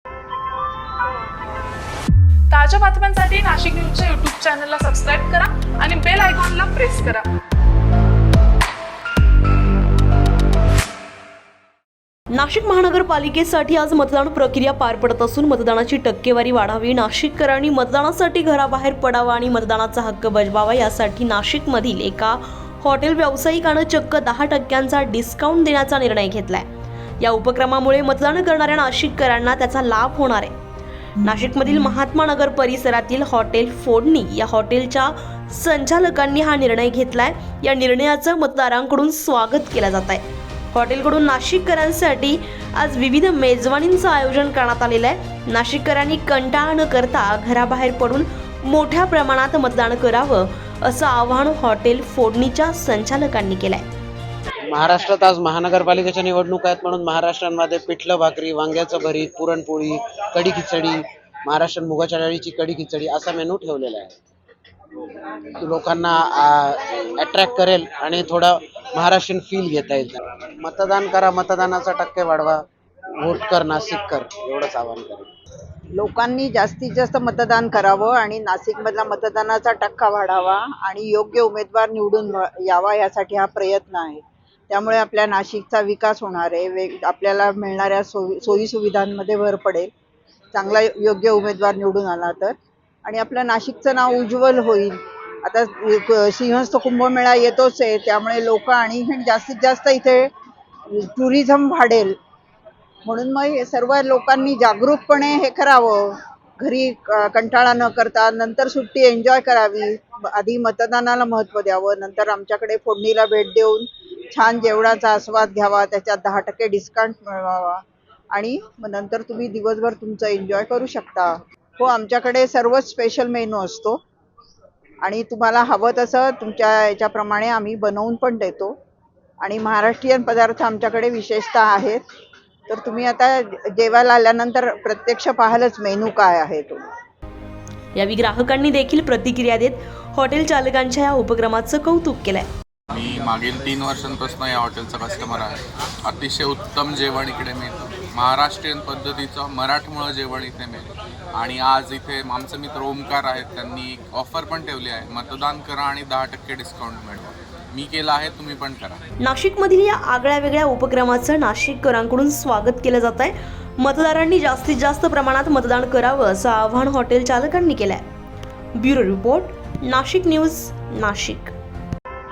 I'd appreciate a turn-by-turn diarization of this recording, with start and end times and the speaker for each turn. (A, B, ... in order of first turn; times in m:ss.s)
0:02.5-0:07.2 A
0:12.3-0:26.7 B
0:27.2-0:30.6 B
0:31.2-0:53.9 B
0:54.7-1:04.2 C
1:05.6-1:12.6 C
1:13.2-1:15.3 C
1:16.0-1:29.9 D
1:30.5-1:32.5 D
1:33.0-1:40.3 D
1:40.9-1:42.2 D
1:43.1-1:57.8 D
1:58.3-2:04.0 D
2:05.0-2:08.8 D
2:09.4-2:12.0 D
2:12.7-2:16.8 D
2:18.0-2:22.5 B
2:22.9-2:25.6 E
2:26.1-2:39.0 E
2:39.2-2:48.0 B
2:48.8-2:51.5 B